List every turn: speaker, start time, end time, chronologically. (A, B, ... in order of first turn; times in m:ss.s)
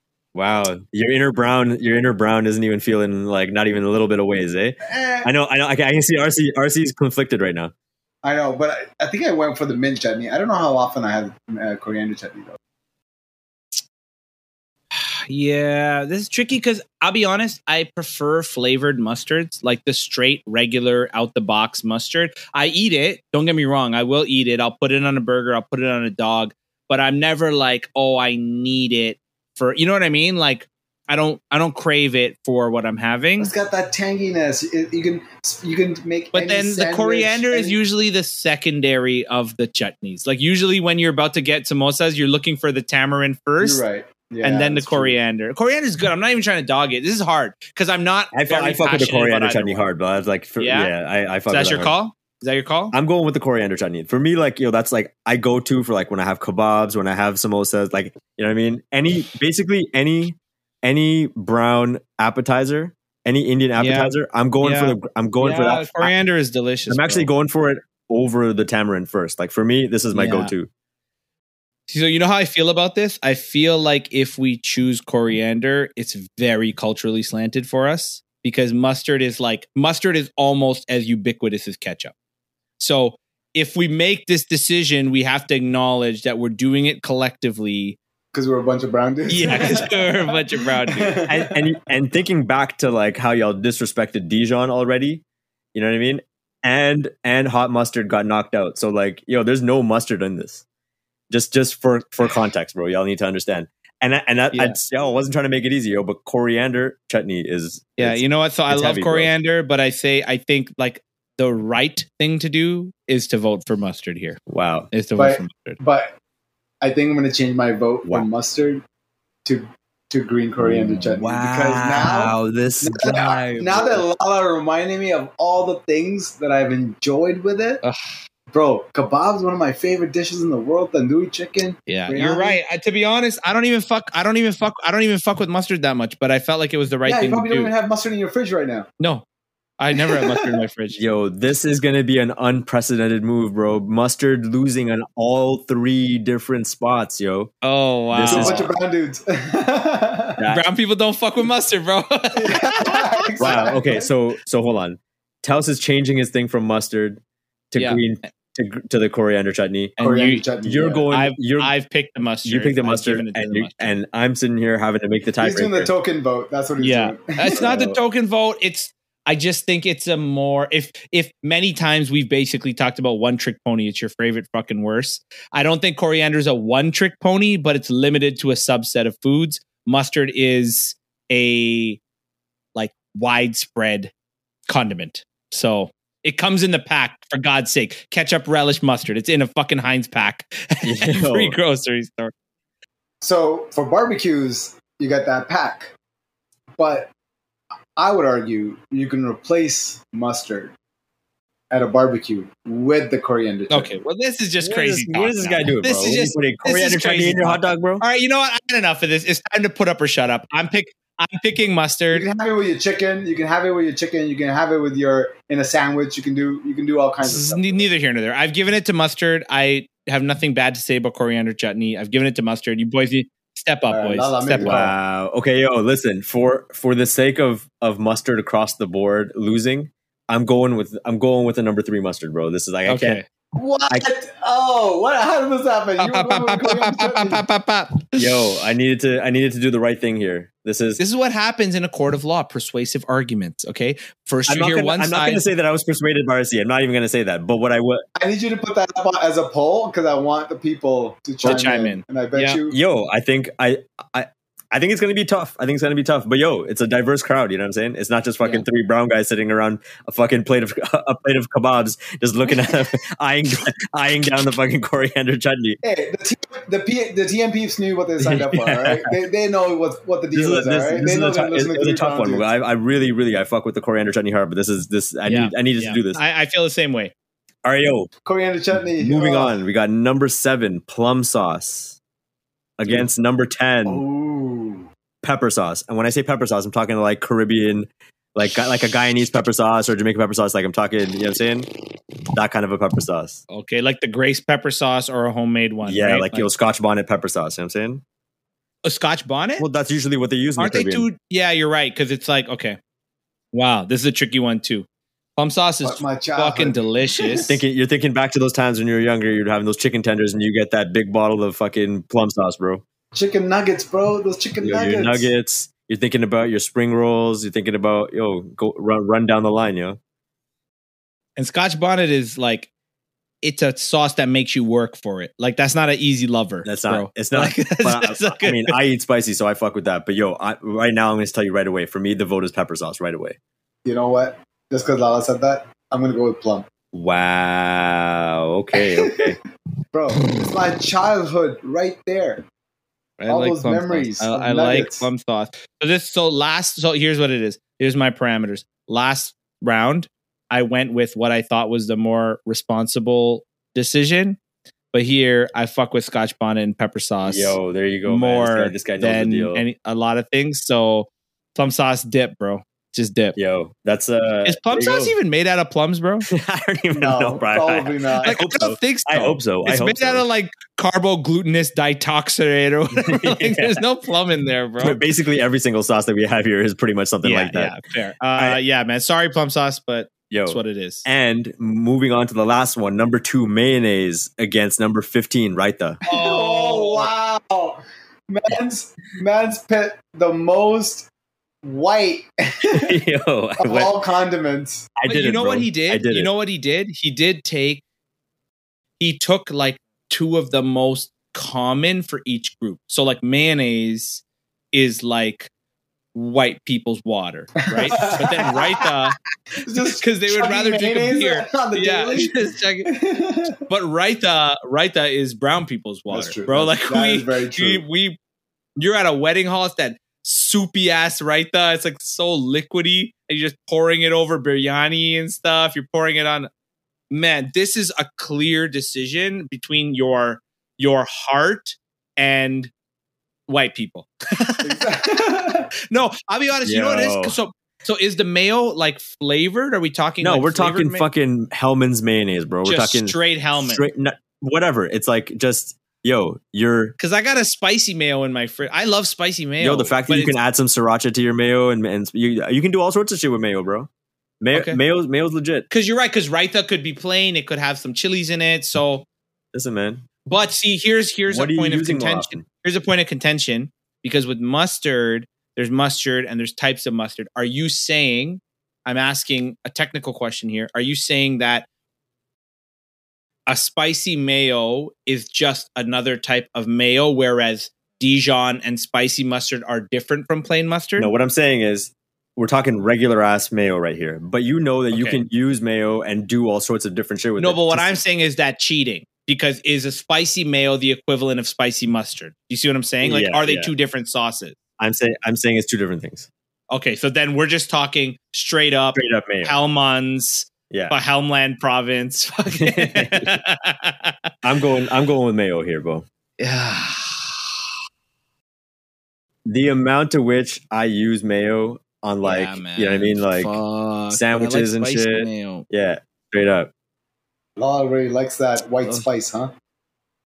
0:00.3-0:07.7 A
0:04.9-0:05.3 B
0:08.2-0:12.6 B
0:14.9-0:33.5 C
0:33.4-0:37.8 B
0:36.3-0:43.8 C
0:43.6-0:45.1 B
0:44.4-0:49.9 C
0:48.3-0:51.9 A
0:50.6-0:50.9 C
0:51.5-0:52.9 C
0:52.9-1:06.1 A
1:03.8-1:07.3 C
1:06.9-1:10.7 A
1:10.1-1:10.5 C
1:11.9-1:22.1 C
1:22.8-1:28.0 C
1:28.3-1:31.6 B
1:29.3-1:31.2 C
1:31.3-1:35.2 A
1:35.7-1:40.6 A
1:41.3-1:49.3 A
1:44.5-1:44.8 C
1:48.0-1:54.4 C
1:54.5-1:54.9 A
1:54.9-1:55.8 C
1:55.2-1:56.1 B
1:56.8-1:58.8 B
1:59.4-2:07.8 B
2:00.6-2:04.0 A
2:07.8-2:08.2 C
2:08.5-2:12.6 B
2:11.9-2:17.7 C
2:17.0-2:18.9 B
2:19.8-2:21.0 C
2:20.0-2:20.6 B
2:20.9-2:27.5 A
2:27.6-2:28.7 C
2:28.1-2:28.7 A
2:28.3-2:30.4 B
2:30.4-2:30.6 A
2:30.5-2:33.7 C
2:32.4-2:34.1 B
2:33.4-2:40.0 A
2:37.8-2:38.0 C
2:40.0-2:40.4 C
2:40.0-2:41.0 B
2:40.6-2:41.7 A
2:41.1-2:43.9 C
2:42.4-2:45.9 A
2:45.4-2:48.0 B
2:46.8-3:02.0 C
3:02.7-3:04.1 C
3:04.7-3:12.3 C
3:10.8-3:11.6 A
3:13.2-3:15.9 B
3:16.8-3:17.1 B
3:18.0-3:20.7 B
3:21.7-3:23.9 B
3:23.7-3:32.2 C
3:24.6-3:28.0 A
3:32.1-3:37.9 B
3:37.2-3:45.0 C
3:43.9-3:44.9 B
3:44.6-3:53.2 A
3:52.8-3:53.2 C
3:53.5-3:57.4 B
3:56.0-3:58.5 C
3:58.2-4:01.0 A
4:01.0-4:05.4 C
4:04.5-4:08.0 A
4:08.2-4:12.8 B
4:11.4-4:12.6 C
4:12.7-4:25.8 A
4:25.8-4:32.4 B
4:28.2-4:29.1 A
4:30.3-4:36.2 A
4:35.2-4:37.1 C
4:37.6-4:38.1 A
4:38.2-4:39.6 B
4:39.0-4:42.0 A
4:42.8-4:44.0 A
4:43.8-4:44.9 B
4:45.2-4:51.7 A
4:52.3-4:53.4 A
4:53.5-4:56.5 C
4:55.8-4:58.0 A
4:58.8-4:59.6 C
4:59.6-5:01.1 A
5:00.6-5:02.8 C
5:03.5-5:04.8 C
5:05.4-5:07.5 C
5:05.8-5:07.4 B
5:07.5-5:12.8 A
5:13.1-5:15.3 B
5:14.6-5:20.0 A
5:21.4-5:22.7 C
5:23.4-5:28.8 C
5:26.6-5:33.4 A
5:33.8-5:36.7 B
5:36.9-5:39.4 A
5:38.7-5:39.4 B
5:39.9-5:42.4 B
5:43.2-5:54.4 C
5:43.3-5:45.1 B
5:54.9-6:03.4 C
5:57.2-5:59.6 A
6:03.4-6:05.1 A
6:04.4-6:06.3 C
6:06.3-6:10.2 A
6:06.9-6:08.4 B
6:08.2-6:15.0 C
6:13.1-6:13.8 A
6:14.8-6:17.7 A
6:17.2-6:21.0 C
6:20.3-6:26.0 A
6:26.1-6:27.1 C
6:26.1-6:31.1 B
6:31.6-6:33.0 B
6:32.7-6:34.0 A
6:33.6-6:34.9 B
6:35.0-6:36.3 A
6:35.1-6:37.8 C
6:39.0-6:45.5 C
6:46.1-6:49.2 C
6:47.6-6:48.8 B
6:49.6-6:53.6 B
6:49.9-6:52.9 C
6:53.7-6:58.2 C
6:56.1-6:57.8 B
6:58.8-7:06.5 C
7:07.1-7:12.7 C
7:13.5-7:15.0 C
7:14.6-7:15.7 B
7:15.9-7:21.0 C
7:16.6-7:17.4 A
7:20.2-7:26.9 A
7:22.6-7:23.8 C
7:27.0-7:30.4 C
7:29.6-7:33.9 A
7:34.4-7:35.7 A
7:34.5-7:34.8 C
7:35.7-7:39.0 C
7:39.5-7:40.0 A
7:40.2-7:51.7 C
7:41.3-7:42.4 A
7:53.5-8:01.1 C
8:01.0-8:07.9 A
8:04.9-8:05.2 C
8:07.4-8:14.6 C
8:13.0-8:13.7 A
8:14.8-8:16.3 A
8:16.7-8:24.2 C
8:18.9-8:19.6 A
8:20.7-8:20.9 A
8:22.6-8:23.4 A
8:24.4-8:26.0 A
8:26.4-8:27.5 C
8:29.4-8:33.6 A
8:32.2-8:35.6 C
8:34.1-8:36.7 A
8:37.6-8:39.5 B